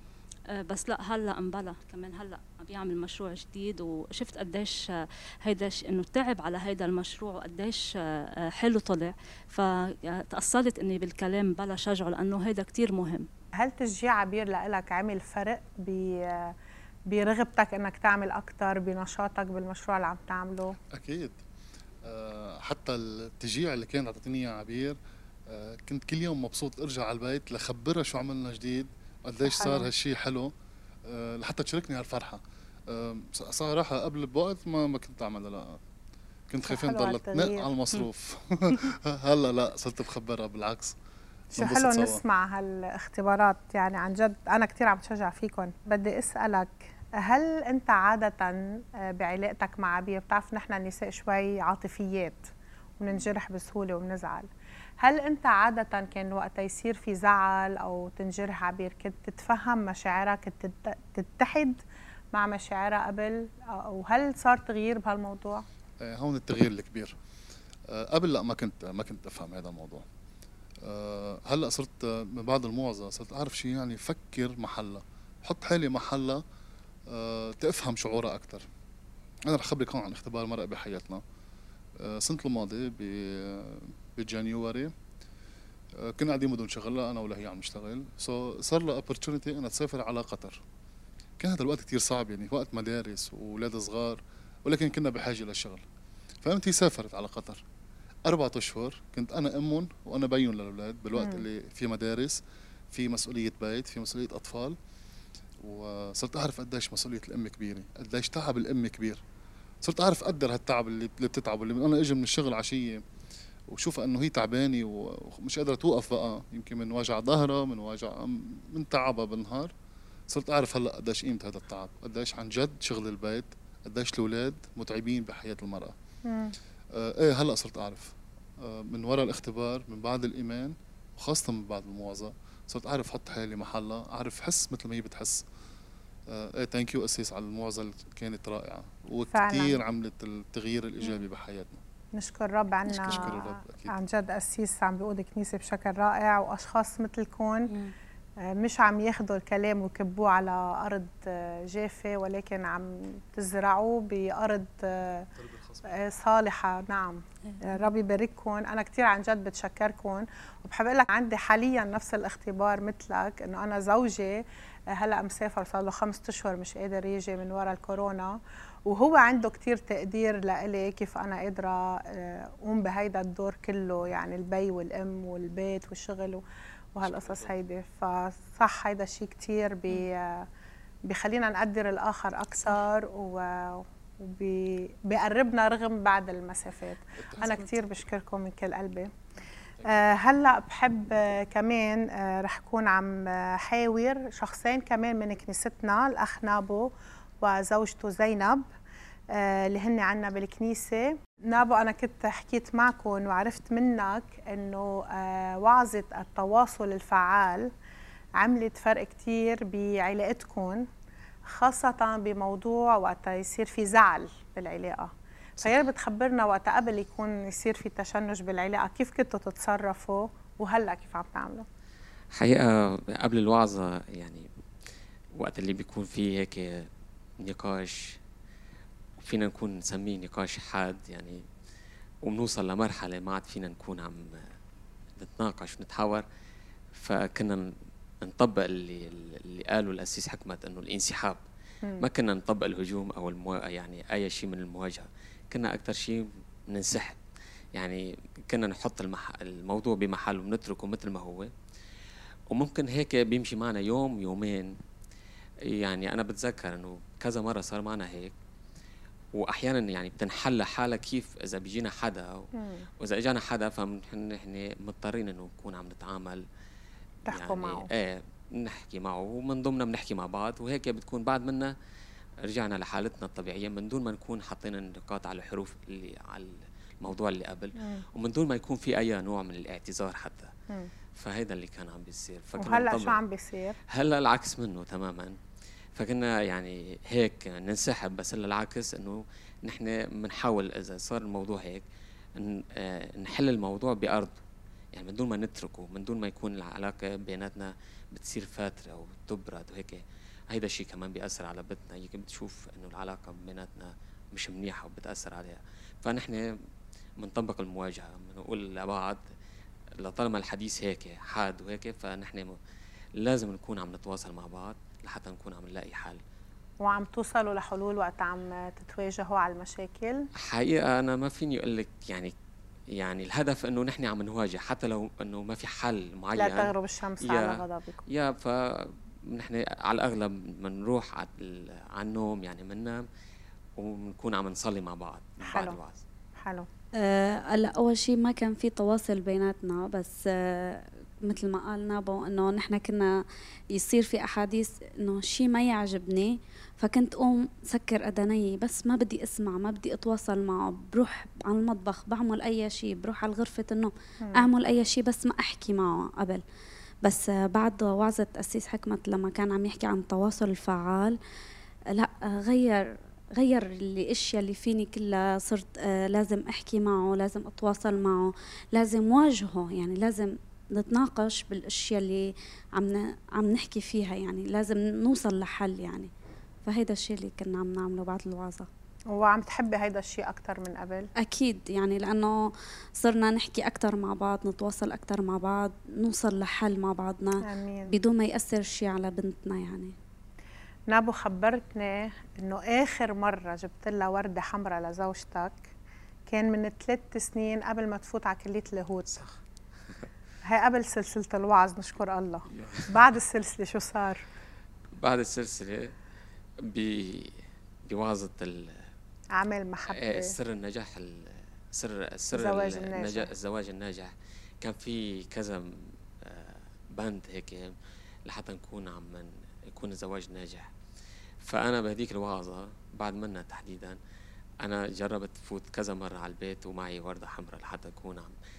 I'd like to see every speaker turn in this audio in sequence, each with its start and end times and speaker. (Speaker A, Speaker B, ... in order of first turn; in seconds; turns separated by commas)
Speaker A: 0.5-13.3, Speaker B: 13.6-16.5, Speaker B: 17.1-20.8, Speaker C: 20.9-21.4, Speaker C: 22.0-25.0, Speaker C: 25.5-30.5, Speaker A: 29.6-29.9, Speaker C: 31.1-35.8, Speaker C: 36.5-41.0, Speaker B: 36.7-37.7, Speaker B: 41.5-54.5, Speaker C: 41.6-42.2, Speaker B: 55.0-61.8, Speaker B: 62.3-65.6, Speaker C: 66.0-67.2, Speaker C: 67.9-70.0, Speaker C: 70.8-76.4, Speaker C: 77.1-78.7, Speaker C: 79.5-81.2, Speaker C: 82.0-84.9, Speaker C: 86.0-90.6, Speaker C: 91.4-95.8, Speaker C: 96.4-97.6, Speaker C: 98.2-102.4, Speaker B: 101.2-101.4, Speaker C: 102.9-104.8, Speaker C: 105.6-109.2, Speaker C: 109.8-113.0, Speaker C: 113.7-119.7, Speaker C: 120.3-125.9, Speaker B: 126.2-126.5, Speaker C: 126.9-135.4, Speaker C: 136.3-141.8, Speaker B: 139.3-139.8, Speaker B: 142.1-147.7, Speaker C: 143.0-143.9, Speaker B: 148.4-155.3, Speaker C: 155.3-155.9, Speaker B: 155.8-176.4, Speaker A: 157.5-157.9, Speaker B: 176.9-180.5, Speaker C: 177.0-177.5, Speaker B: 181.1-189.1, Speaker C: 187.2-187.6, Speaker C: 189.8-190.0, Speaker B: 189.8-198.6, Speaker B: 199.3-207.7, Speaker B: 208.4-210.9, Speaker B: 211.4-221.7, Speaker D: 222.3-224.5, Speaker D: 225.3-226.9, Speaker D: 227.4-228.2, Speaker D: 229.2-231.4, Speaker D: 232.2-234.5, Speaker D: 235.2-236.2, Speaker D: 236.9-241.4, Speaker D: 242.0-247.2, Speaker D: 247.8-251.5, Speaker D: 252.5-254.8, Speaker D: 255.7-258.3, Speaker D: 259.4-266.4, Speaker B: 262.6-262.9, Speaker B: 267.2-267.9, Speaker D: 267.3-271.7, Speaker D: 272.4-280.5, Speaker D: 281.1-283.2, Speaker B: 282.6-283.8, Speaker D: 283.9-285.4, Speaker D: 285.9-291.8, Speaker D: 292.4-294.4, Speaker D: 294.9-306.5, Speaker D: 307.2-309.2, Speaker D: 310.0-312.6, Speaker D: 313.2-316.2, Speaker B: 316.8-320.2, Speaker D: 320.4-322.3, Speaker D: 323.0-327.6, Speaker B: 326.4-328.0, Speaker D: 328.1-333.0, Speaker D: 333.8-336.0, Speaker B: 335.4-335.8, Speaker B: 336.4-336.7, Speaker E: 337.0-343.2, Speaker E: 343.8-356.4, Speaker B: 354.2-354.5, Speaker E: 357.0-361.2, Speaker E: 361.9-376.1, Speaker E: 376.6-378.7, Speaker B: 379.1-381.1, Speaker E: 381.2-389.9, Speaker B: 387.4-387.9, Speaker B: 390.9-395.7, Speaker B: 396.3-399.3, Speaker B: 400.4-404.2, Speaker D: 402.6-402.9, Speaker D: 404.9-405.9, Speaker D: 406.6-407.3, Speaker D: 407.9-408.8, Speaker B: 409.4-410.4, Speaker D: 409.9-417.7, Speaker B: 412.3-413.3, Speaker D: 418.3-420.7, Speaker D: 421.4-424.0, Speaker D: 424.6-428.4